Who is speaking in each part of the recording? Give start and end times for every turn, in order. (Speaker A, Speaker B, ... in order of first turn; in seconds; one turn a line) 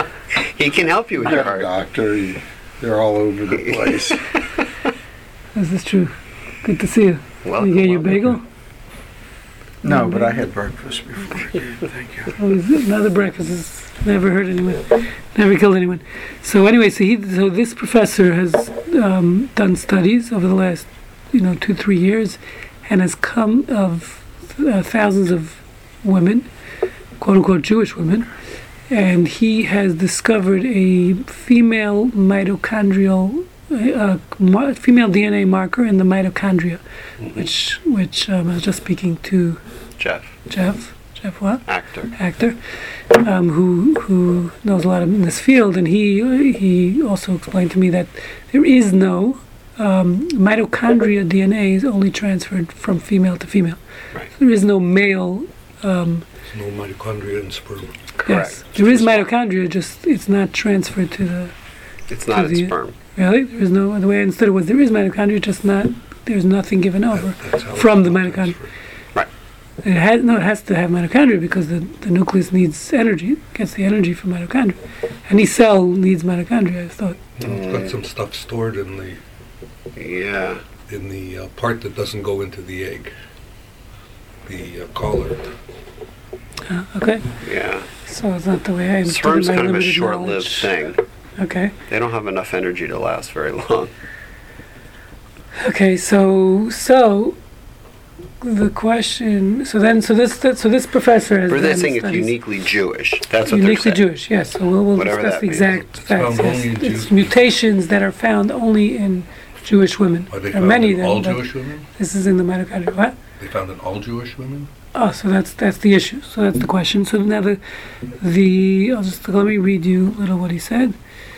Speaker A: 0.3-1.7
Speaker B: 1.2-4.3
Speaker A: 3.5-4.7
Speaker C: 5.5-8.4
Speaker A: 7.4-8.4
Speaker B: 9.8-12.3
Speaker C: 9.9-10.4
Speaker C: 12.4-26.5
Speaker C: 27.2-28.3
Speaker C: 28.9-36.8
Speaker C: 37.3-39.6
Speaker A: 40.0-40.3
Speaker C: 40.5-42.6
Speaker A: 41.7-42.1
Speaker C: 43.1-53.8
Speaker C: 54.3-56.3
Speaker D: 56.5-58.0
Speaker A: 58.2-59.3
Speaker C: 58.3-61.5
Speaker A: 62.1-63.0
Speaker C: 62.3-68.6
Speaker D: 67.1-68.7
Speaker C: 69.8-77.2
Speaker D: 77.4-79.2
Speaker A: 77.4-77.9
Speaker A: 80.0-80.6
Speaker D: 80.9-83.1
Speaker D: 84.5-85.5
Speaker C: 86.7-87.3
Speaker A: 87.4-87.9
Speaker C: 88.1-90.7
Speaker A: 89.0-91.0
Speaker C: 91.4-91.7
Speaker A: 91.9-93.9
Speaker C: 95.6-97.4
Speaker C: 98.4-102.3
Speaker A: 101.5-104.0
Speaker C: 103.5-113.2
Speaker A: 104.9-105.8
Speaker D: 106.1-107.3
Speaker D: 110.3-111.9
Speaker D: 113.4-114.7
Speaker C: 115.0-117.6
Speaker C: 118.2-121.0